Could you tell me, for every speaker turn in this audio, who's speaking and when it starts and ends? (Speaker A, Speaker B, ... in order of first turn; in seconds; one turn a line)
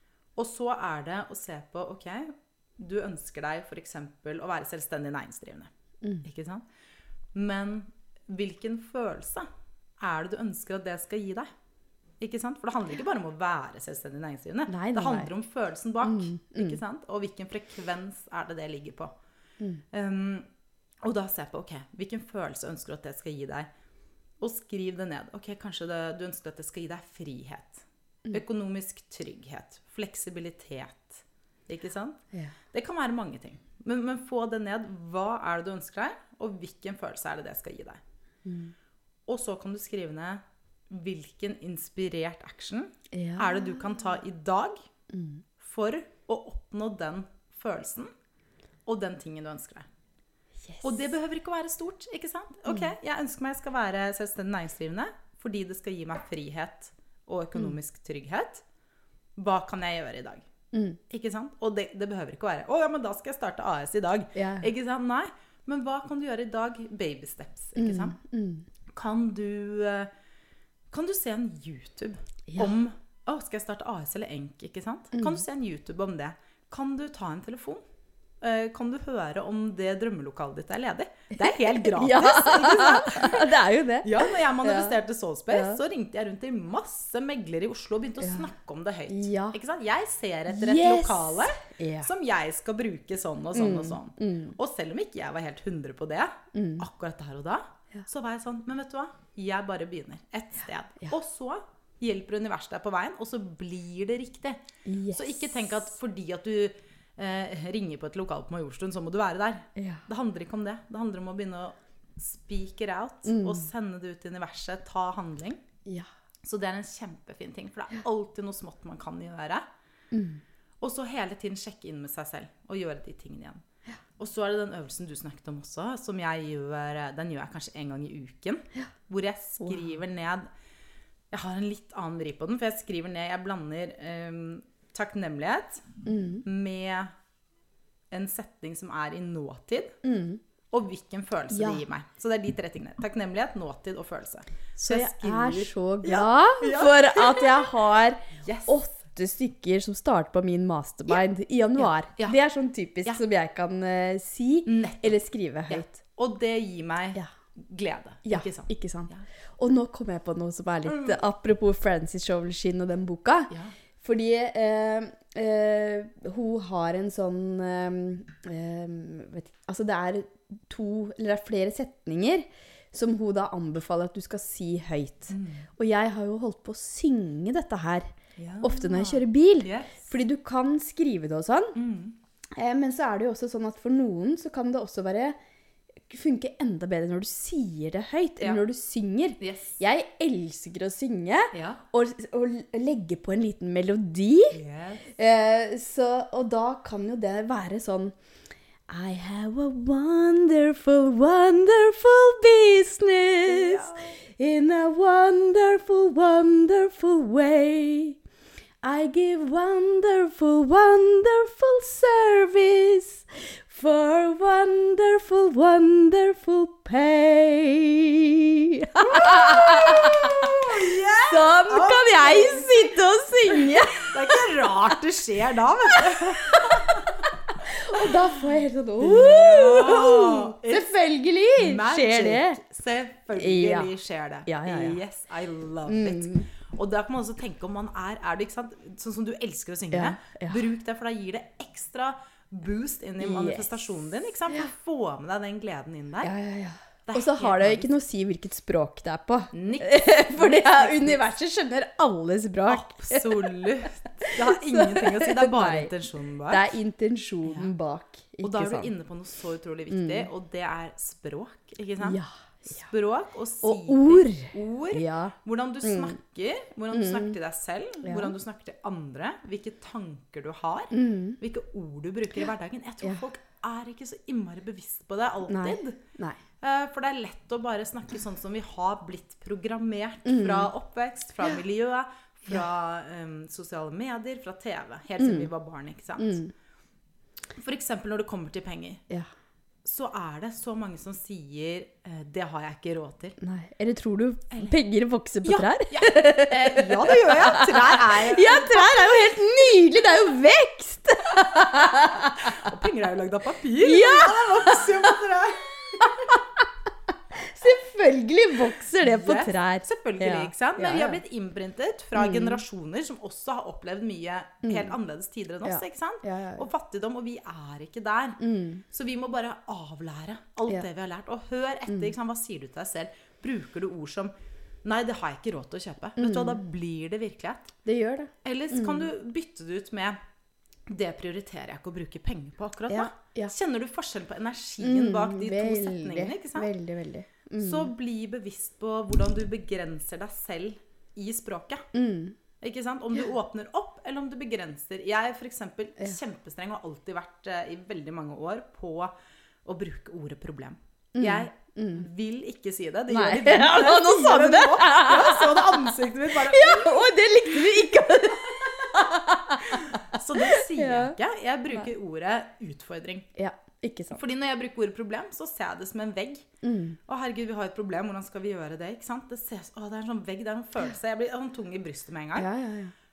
Speaker A: 0.3-5.7
Speaker A: 6.2-6.6
Speaker A: 7.3-9.4
Speaker A: 10.0-11.5
Speaker A: 12.2-19.1
Speaker B: 14.7-15.3
Speaker B: 16.0-16.8
Speaker A: 19.9-20.5
Speaker A: 21.0-23.7
Speaker A: 24.4-38.0
Speaker B: 38.4-38.7
Speaker A: 39.3-44.9
Speaker B: 43.1-43.8
Speaker B: 45.1-45.4
Speaker A: 45.6-48.1
Speaker A: 48.9-49.9
Speaker B: 50.6-51.0
Speaker A: 50.8-58.6
Speaker A: 59.4-60.5
Speaker B: 60.7-61.0
Speaker A: 61.1-68.2
Speaker B: 64.3-64.7
Speaker B: 67.7-68.6
Speaker A: 68.9-70.1
Speaker A: 70.9-77.8
Speaker B: 72.5-72.7
Speaker B: 75.2-75.4
Speaker A: 78.4-104.6
Speaker B: 81.4-84.9
Speaker B: 85.5-85.8
Speaker B: 88.2-88.5
Speaker B: 89.1-89.6
Speaker B: 90.5-92.1
Speaker B: 93.5-94.6
Speaker B: 96.5-96.8
Speaker B: 104.8-105.7
Speaker A: 105.1-115.6
Speaker B: 109.8-110.0
Speaker B: 113.2-113.7
Speaker A: 116.4-119.7
Speaker B: 120.1-120.4
Speaker A: 120.8-123.6
Speaker A: 124.2-130.5
Speaker B: 129.6-129.9
Speaker A: 131.3-137.1
Speaker B: 136.0-136.4
Speaker A: 138.1-140.0
Speaker B: 140.0-140.4
Speaker A: 140.7-147.7
Speaker B: 141.5-141.8
Speaker B: 144.8-155.9
Speaker A: 148.4-148.8
Speaker A: 151.8-152.4
Speaker A: 154.7-159.2
Speaker B: 158.2-178.1
Speaker A: 160.9-161.2
Speaker A: 163.5-163.7
Speaker A: 175.3-175.7
Speaker A: 178.4-180.0
Speaker B: 178.6-181.8
Speaker A: 181.7-182.2
Speaker B: 182.5-185.3
Speaker B: 186.1-194.6
Speaker A: 189.4-189.8
Speaker A: 191.5-191.8
Speaker A: 194.5-195.1
Speaker B: 195.1-198.1
Speaker B: 198.9-208.2
Speaker A: 203.4-204.1
Speaker B: 208.8-224.9
Speaker A: 219.0-223.0
Speaker A: 223.5-228.4
Speaker B: 225.9-232.6
Speaker A: 229.0-231.0
Speaker A: 231.5-246.3
Speaker B: 233.3-233.9
Speaker B: 234.4-235.0
Speaker B: 235.8-236.5
Speaker B: 239.9-240.6
Speaker B: 243.2-243.7
Speaker B: 246.2-255.9
Speaker A: 247.1-247.9
Speaker A: 249.5-251.3
Speaker A: 252.7-256.6
Speaker B: 256.5-258.9
Speaker A: 257.4-257.7
Speaker A: 258.4-276.0
Speaker B: 259.9-260.3
Speaker B: 262.0-262.9
Speaker B: 263.6-266.2
Speaker B: 266.9-267.4
Speaker B: 268.0-268.3
Speaker B: 270.9-271.4
Speaker B: 275.5-276.4
Speaker A: 276.6-286.4
Speaker B: 280.2-280.7
Speaker B: 285.2-285.5
Speaker B: 286.2-286.5
Speaker A: 287.6-289.0
Speaker A: 289.8-293.4
Speaker B: 293.4-302.6
Speaker A: 295.4-298.8
Speaker A: 302.4-306.2
Speaker B: 303.8-305.1
Speaker B: 306.0-306.6
Speaker B: 307.3-311.2
Speaker A: 309.0-324.3
Speaker B: 312.1-312.6
Speaker B: 314.6-314.9
Speaker B: 315.6-316.7
Speaker B: 318.4-318.8
Speaker B: 321.9-322.1
Speaker A: 324.8-327.7
Speaker B: 326.2-326.6
Speaker B: 327.8-329.1
Speaker A: 328.4-330.2
Speaker A: 330.9-336.7
Speaker B: 332.9-333.5
Speaker B: 334.8-337.9
Speaker A: 337.6-341.9
Speaker B: 341.9-342.4
Speaker A: 342.6-349.1
Speaker A: 349.6-357.1
Speaker B: 351.1-352.1
Speaker B: 353.1-361.2
Speaker A: 359.7-363.3
Speaker B: 363.4-364.2
Speaker A: 364.1-366.5
Speaker B: 366.6-367.0
Speaker A: 367.1-372.5
Speaker B: 372.4-372.9